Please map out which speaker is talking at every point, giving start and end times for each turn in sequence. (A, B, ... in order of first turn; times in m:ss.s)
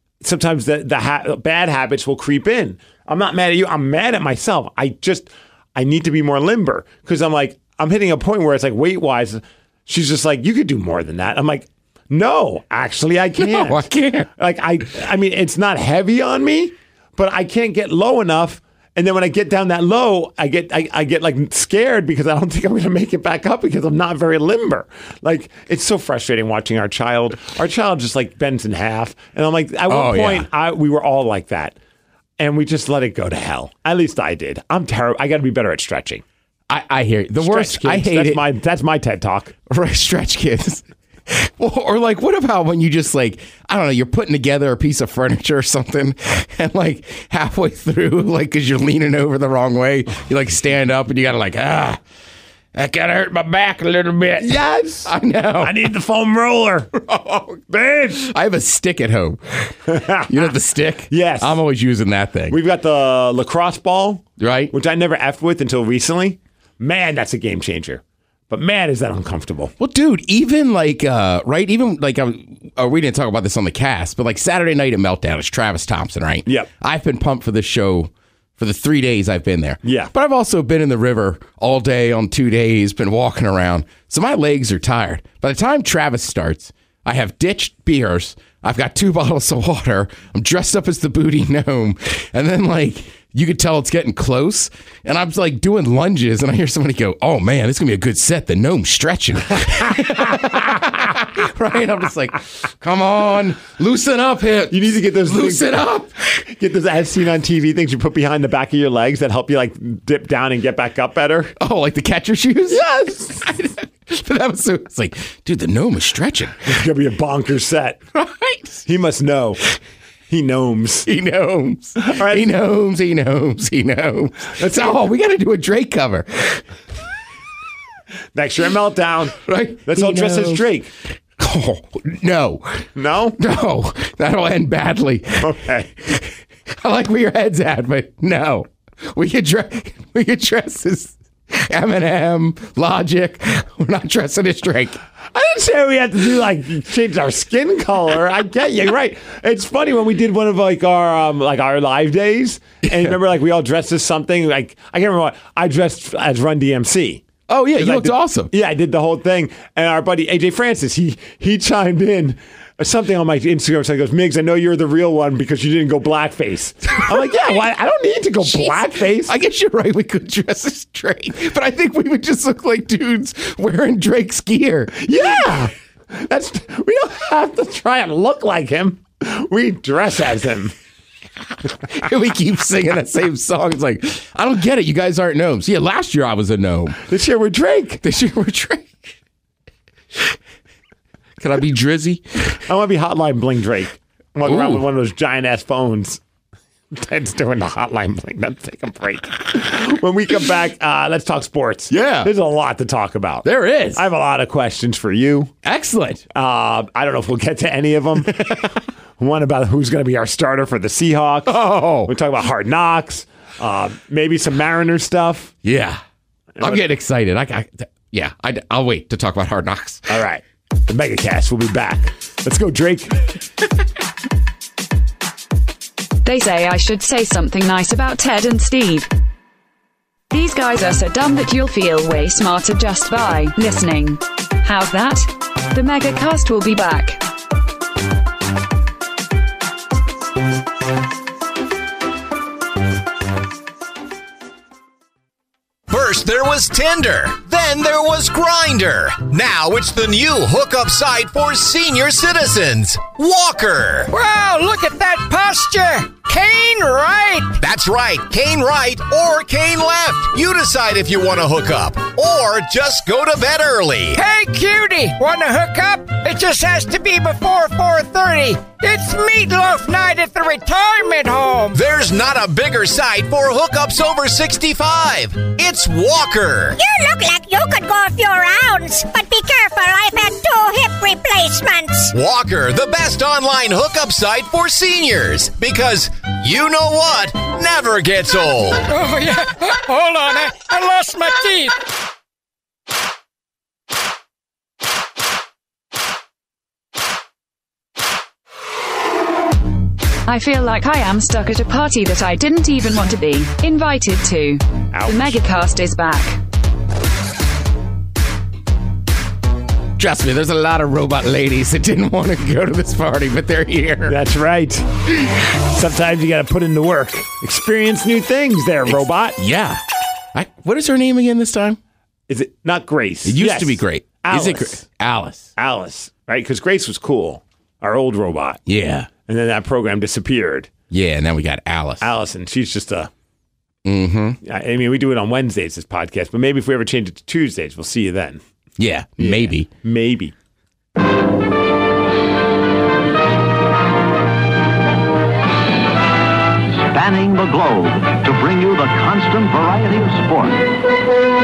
0:00.2-0:31.8 A
0:13.4-0:14.3 B
0:29.9-0:30.5 B
0:32.4-0:36.2 A
0:36.7-0:38.4 B
0:37.4-0:39.5 A
0:39.7-0:52.0 B
0:52.7-0:55.9 B
0:54.4-0:56.9 A
0:56.9-1:02.6 B
0:57.7-0:58.2 A
0:59.9-1:00.3 A
1:01.1-1:01.6 A
1:02.5-1:09.7 A
1:04.4-1:04.7 B
1:09.8-1:46.4 B
1:19.8-1:20.1 A
1:44.7-1:45.8 A
1:46.4-1:51.5 A
1:51.6-1:52.8 B
1:52.7-1:53.4 A
1:53.4-1:56.7 B
1:56.7-1:58.0 A
1:58.1-1:58.8 B
1:58.8-1:59.6 A
2:00.3-2:01.1 A
2:01.0-2:06.6 B
2:02.0-2:02.5 A
2:04.6-2:04.8 A
2:08.3-2:10.9 A
2:09.4-2:10.7 B
2:11.4-2:25.0 B
2:13.0-2:13.4 A
2:15.4-2:15.9 A
2:25.3-2:37.2 A
2:32.8-2:33.2 B
2:37.5-2:38.5 B
2:37.8-2:49.3 A
2:46.9-2:47.6 B
2:48.4-2:55.7 B
2:55.0-3:00.7 A
3:01.9-3:07.0 B
3:07.1-3:08.0 A
3:08.0-3:09.0 B
3:11.4-3:12.6 B
3:12.6-3:16.2 A
3:14.4-3:14.8 B
3:16.9-3:25.5 A
3:21.9-3:22.3 B
3:23.4-3:24.0 B
3:25.6-3:26.2 B
3:26.3-3:28.6 A
3:29.2-3:35.5 A
3:31.4-3:32.1 B
3:35.6-3:36.0 B
3:36.6-3:36.8 A
3:36.6-3:40.1 B
3:40.1-3:43.2 A
3:46.2-3:49.1 C
3:50.3-3:57.2 C
4:05.9-4:14.1 D
4:14.1-4:17.6 E
4:17.6-4:24.2 D
4:24.1-4:31.8 E
4:31.7-4:36.8 D
4:36.8-4:42.1 F
4:42.1-4:48.9 D
4:48.9-4:51.8 E
5:00.3-5:06.4 C
5:04.9-5:05.4 A
5:10.0-5:14.2 B
5:14.1-5:14.9 A
5:15.6-5:19.4 A
5:18.9-5:19.8 B
5:20.3-5:21.8 B
5:22.3-5:24.8 A
5:23.2-5:25.5 B
5:25.6-5:28.6 A
5:28.7-5:29.1 B
5:29.2-5:30.7 A
5:30.9-5:32.1 B
5:32.0-5:33.1 A
5:33.8-5:34.4 B
5:34.4-5:38.4 A
5:38.8-5:39.7 B
5:39.2-5:40.3 A
5:46.9-5:50.8 G